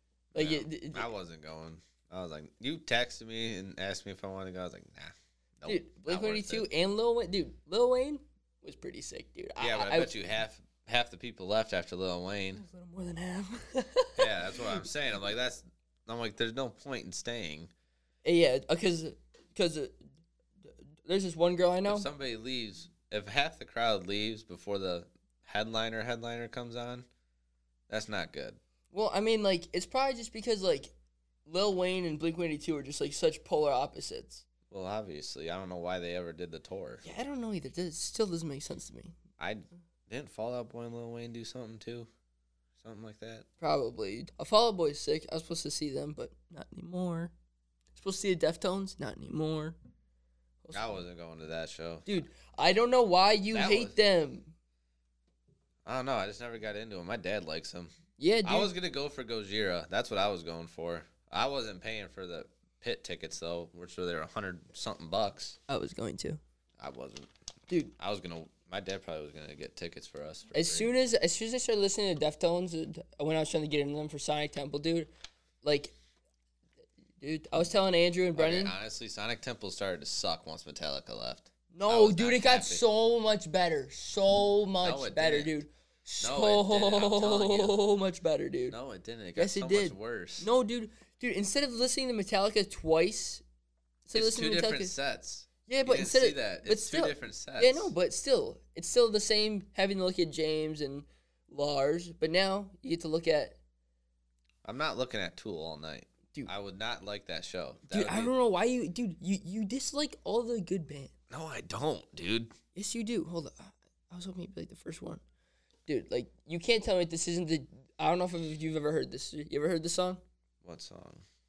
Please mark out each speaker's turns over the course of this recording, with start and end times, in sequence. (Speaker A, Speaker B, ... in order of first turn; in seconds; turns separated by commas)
Speaker A: 0.3-1.1, Speaker B: 0.3-6.7, Speaker A: 5.7-10.1, Speaker B: 9.6-12.6, Speaker A: 12.6-14.3, Speaker B: 14.2-17.7, Speaker A: 18.2-19.9, Speaker A: 21.0-22.1, Speaker B: 21.9-27.1, Speaker B: 27.9-28.6, Speaker A: 28.9-30.9, Speaker A: 31.4-34.4, Speaker B: 34.7-37.0, Speaker A: 37.0-39.1, Speaker B: 39.4-42.1, Speaker B: 42.8-43.5, Speaker A: 43.6-47.3, Speaker A: 47.9-49.8, Speaker A: 50.6-51.0, Speaker B: 50.7-52.1, Speaker A: 52.0-54.5, Speaker B: 53.5-53.9, Speaker B: 55.8-57.9, Speaker A: 58.2-58.7, Speaker B: 58.4-65.6, Speaker A: 65.7-66.4, Speaker B: 66.8-67.3, Speaker A: 67.7-67.9, Speaker B: 68.0-70.9, Speaker A: 70.5-75.1, Speaker A: 75.6-75.9, Speaker A: 77.2-78.7, Speaker B: 78.3-82.8, Speaker A: 81.7-88.8, Speaker B: 84.8-85.5, Speaker B: 86.2-87.8, Speaker B: 88.7-90.5, Speaker A: 89.3-93.4, Speaker A: 94.0-94.9, Speaker B: 94.1-97.9, Speaker A: 95.7-103.6, Speaker B: 104.6-108.3, Speaker A: 107.9-111.1, Speaker B: 111.3-112.5, Speaker A: 112.7-115.2, Speaker A: 115.9-120.2, Speaker B: 120.6-121.2